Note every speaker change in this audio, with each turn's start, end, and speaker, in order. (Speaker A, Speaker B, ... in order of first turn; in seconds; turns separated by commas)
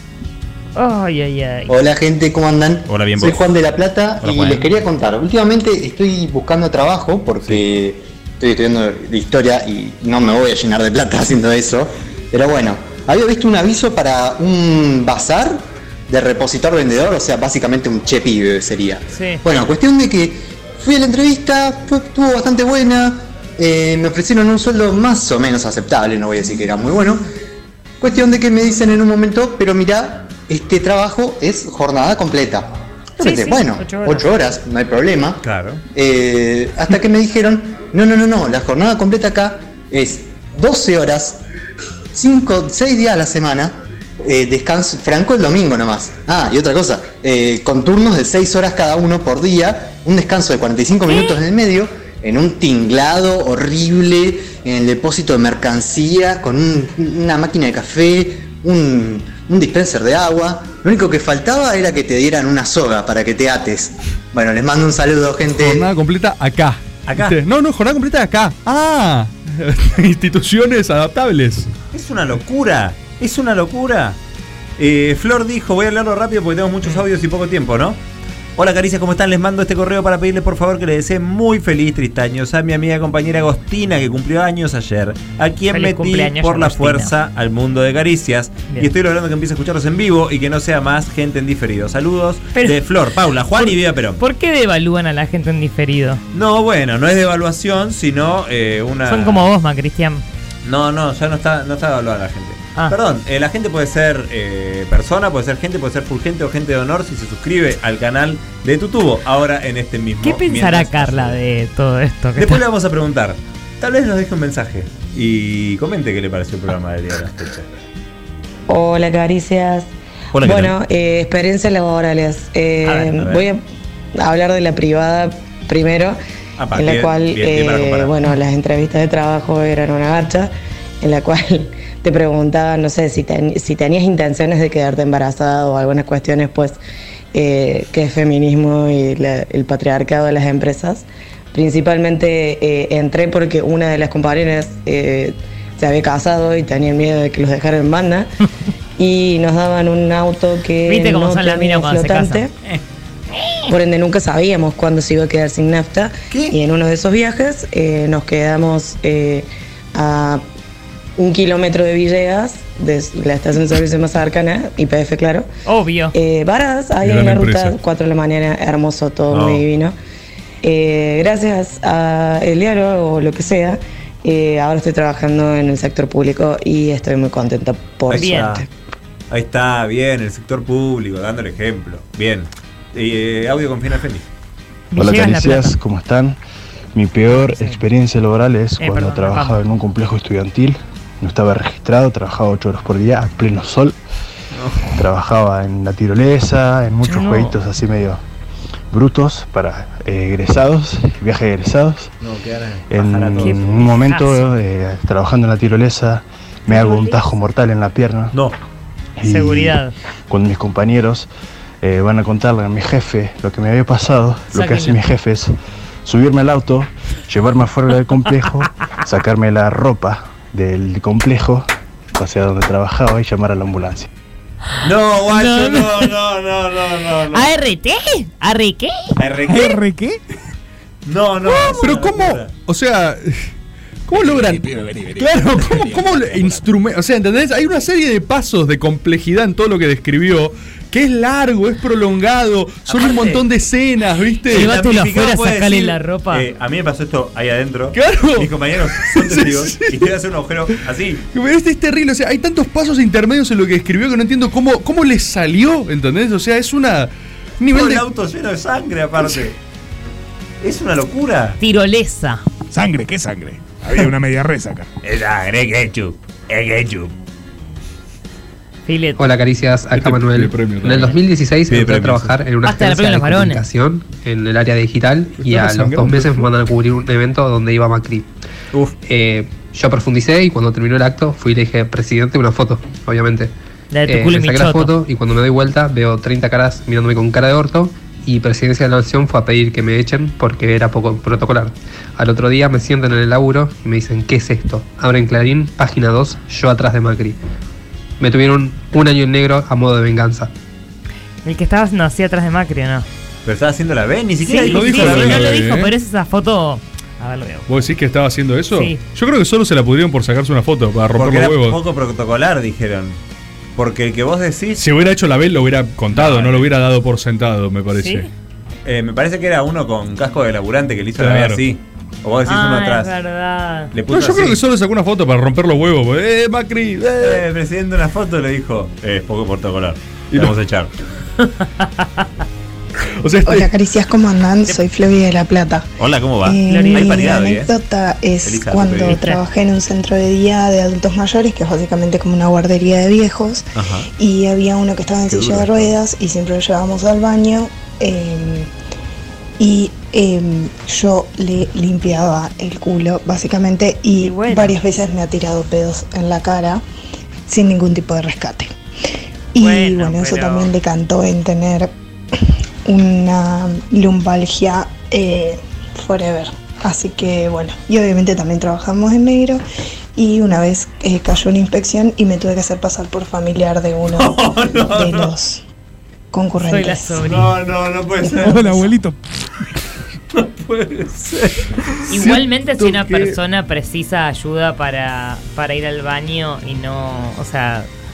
Speaker A: 0.8-1.8, Speaker B: 1.7-27.2, Speaker C: 2.9-3.5, Speaker C: 4.2-4.7, Speaker A: 19.1-19.4, Speaker B: 28.0-35.4, Speaker A: 33.2-34.3, Speaker C: 35.4-35.8, Speaker B: 35.9-41.4, Speaker B: 42.1-65.9, Speaker A: 51.1-51.4, Speaker D: 65.5-71.7, Speaker C: 67.1-67.3, Speaker C: 71.9-74.2, Speaker C: 74.8-78.0, Speaker C: 78.6-94.2, Speaker A: 85.7-87.1, Speaker A: 93.6-96.2, Speaker C: 96.3-99.5, Speaker A: 99.1-100.2, Speaker C: 100.7-111.4, Speaker A: 110.2-112.6, Speaker C: 112.4-117.7, Speaker E: 118.7-123.6, Speaker C: 120.3-120.8, Speaker C: 123.2-123.4, Speaker E: 124.2-126.2, Speaker C: 126.6-128.1, Speaker E: 126.8-136.8, Speaker E: 137.3-148.3, Speaker E: 149.0-152.5, Speaker A: 150.9-152.5, Speaker E: 153.7-160.4, Speaker E: 161.2-165.5, Speaker A: 165.7-166.1, Speaker E: 166.1-169.9, Speaker D: 167.0-167.8, Speaker C: 169.3-169.6, Speaker E: 170.6-178.7, Speaker C: 178.1-178.6, Speaker A: 178.1-178.5, Speaker C: 179.3-184.2, Speaker A: 184.9-185.8, Speaker F: 185.0-186.4, Speaker F: 186.9-194.0, Speaker A: 187.3-187.8, Speaker A: 188.8-189.6, Speaker C: 194.6-194.8, Speaker F: 194.9-198.2, Speaker A: 197.0-197.6, Speaker F: 198.9-202.1, Speaker C: 202.2-203.9, Speaker F: 202.9-208.4, Speaker A: 203.4-204.5, Speaker A: 206.7-207.2, Speaker F: 209.2-211.3, Speaker A: 209.2-209.9, Speaker F: 211.8-215.5, Speaker A: 214.5-215.0, Speaker F: 216.1-224.1, Speaker C: 224.8-227.5, Speaker A: 225.3-226.1, Speaker A: 227.3-229.1, Speaker C: 229.2-229.8, Speaker G: 229.5-230.2, Speaker C: 231.1-232.5, Speaker A: 231.5-231.8, Speaker D: 231.6-233.5, Speaker D: 234.1-244.7, Speaker G: 234.4-236.6, Speaker C: 242.9-243.4, Speaker C: 244.5-251.2, Speaker A: 244.5-246.5, Speaker D: 247.9-250.1, Speaker D: 251.3-258.1, Speaker C: 257.7-259.6, Speaker C: 260.6-261.6, Speaker A: 261.6-262.4, Speaker G: 262.7-264.9, Speaker C: 265.0-267.1, Speaker A: 268.9-269.2, Speaker H: 269.2-278.3, Speaker D: 270.0-271.1, Speaker C: 271.7-272.4, Speaker A: 272.6-273.6, Speaker D: 275.4-276.5, Speaker H: 279.0-283.5, Speaker A: 283.9-284.9, Speaker H: 284.1-297.4, Speaker H: 298.2-300.5, Speaker A: 301.4-303.1, Speaker C: 303.4-305.5, Speaker A: 304.4-307.8, Speaker D: 304.6-305.9, Speaker D: 307.7-311.8, Speaker A: 308.7-309.0, Speaker C: 311.1-313.2, Speaker C: 313.8-314.8, Speaker D: 314.8-318.3, Speaker C: 316.1-316.7, Speaker A: 318.0-318.3, Speaker C: 318.9-323.1, Speaker D: 321.2-321.6, Speaker A: 322.5-323.9, Speaker C: 323.9-324.6, Speaker D: 324.1-327.4, Speaker C: 327.2-330.9, Speaker A: 331.4-332.2, Speaker D: 333.2-333.7, Speaker I: 333.4-335.9, Speaker C: 336.0-337.7, Speaker I: 336.4-348.7, Speaker A: 336.7-337.4, Speaker C: 338.4-339.2, Speaker A: 339.1-339.4, Speaker C: 343.8-344.1, Speaker C: 345.3-345.9, Speaker I: 349.6-356.8, Speaker A: 354.2-354.8, Speaker I: 357.5-358.7, Speaker I: 359.5-361.9, Speaker A: 359.6-360.7, Speaker I: 362.9-369.6, Speaker I: 370.2-375.6, Speaker C: 374.1-375.3, Speaker I: 376.3-377.3, Speaker A: 376.6-377.5, Speaker C: 377.2-378.8, Speaker G: 378.4-379.2, Speaker C: 380.4-381.7, Speaker A: 382.1-387.9, Speaker D: 382.1-383.4